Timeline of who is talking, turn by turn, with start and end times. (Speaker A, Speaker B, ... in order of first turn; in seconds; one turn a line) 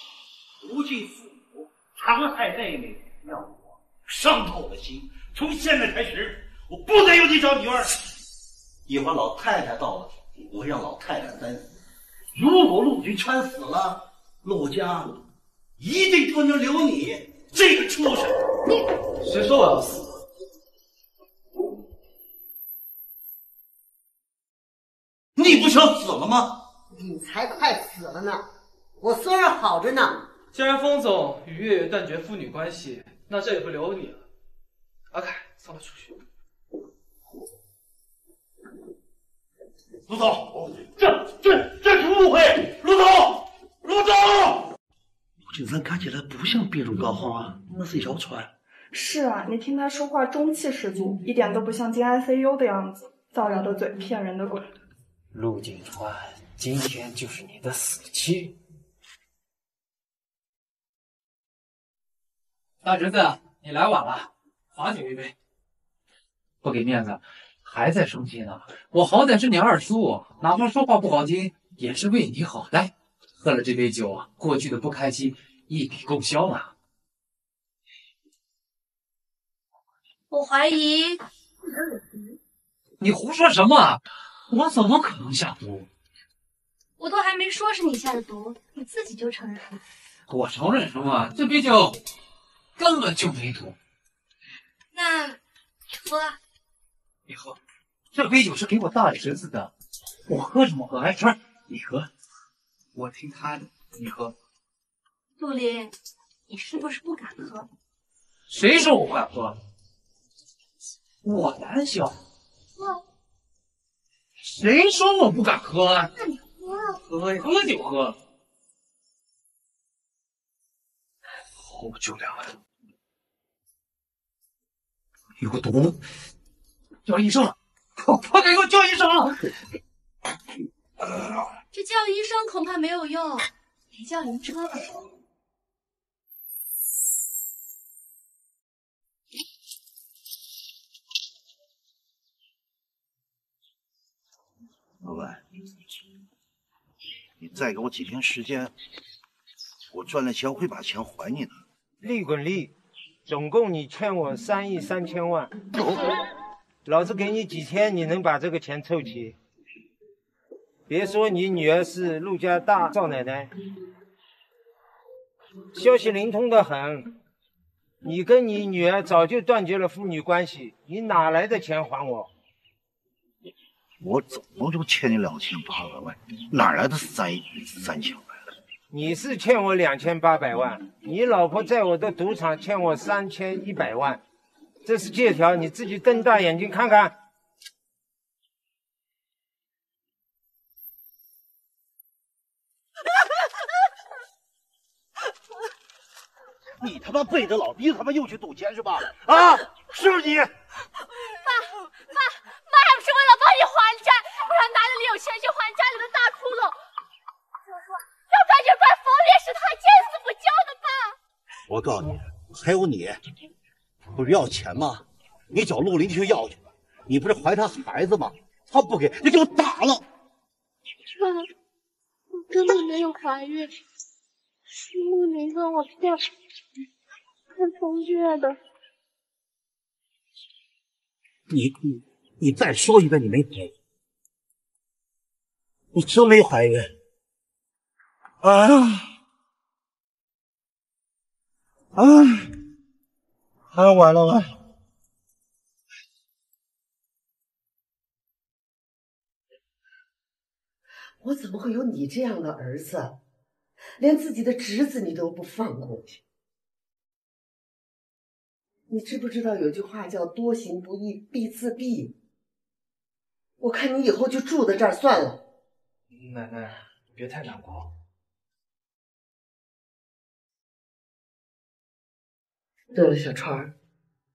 Speaker A: 0.6-8.0
Speaker A: 8.9-11.7
Speaker A: 12.3-15.2
Speaker A: 15.8-18.4
Speaker B: 19.2-20.1
Speaker A: 25.4-26.6
Speaker C: 26.9-28.5
Speaker C: 29.0-30.3
Speaker B: 30.5-34.2
Speaker B: 35.1-36.1
Speaker A: 40.1-44.7
Speaker A: 45.5-48.5
Speaker D: 48.9-54.7
Speaker E: 55.4-58.5
Speaker E: 62.8-65.3
Speaker E: 66.6-76.7
Speaker F: 80.3-81.2
Speaker E: 83.0-85.6
Speaker F: 87.0-89.8
Speaker E: 90.3-92.0
Speaker E: 92.8-93.8
Speaker F: 94.9-95.4
Speaker F: 96.0-96.4
Speaker B: 97.3-97.6
Speaker E: 98.1-99.7
Speaker E: 100.3-102.1
Speaker E: 103.0-104.3
Speaker F: 105.4-105.9
Speaker F: 106.5-107.7
Speaker E: 108.5-109.6
Speaker E: 111.2-112.2
Speaker E: 114.5-116.1
Speaker E: 117.1-118.2
Speaker B: 121.6-122.6
Speaker A: 125.4-126.0
Speaker E: 127.1-129.5
Speaker G: 133.9-134.8
Speaker A: 145.0-145.4
Speaker A: 147.4-148.7
Speaker A: 149.9-151.6
Speaker H: 152.0-152.7
Speaker H: 153.3-155.5
Speaker H: 156.8-159.4
Speaker H: 160.9-163.5
Speaker H: 165.7-167.1
Speaker H: 168.0-172.3
Speaker A: 174.0-178.4
Speaker H: 178.9-184.2
Speaker H: 184.8-187.1
Speaker A: 196.8-200.5
Speaker G: 201.2-206.8
Speaker G: 208.3-211.2
Speaker A: 211.7-213.2
Speaker A: 214.1-220.1
Speaker G: 221.2-221.4
Speaker G: 222.5-223.7
Speaker G: 224.9-226.2
Speaker G: 227.6-228.5
Speaker A: 231.5-233.7
Speaker A: 235.9-236.9
Speaker A: 238.4-239.1
Speaker A: 241.9-242.5
Speaker A: 243.7-244.6
Speaker C: 251.2-253.2
Speaker C: 254.0-256.2
Speaker C: 258.9-262.1
Speaker C: 263.6-265.4
Speaker B: 266.1-267.9
Speaker C: 272.9-273.7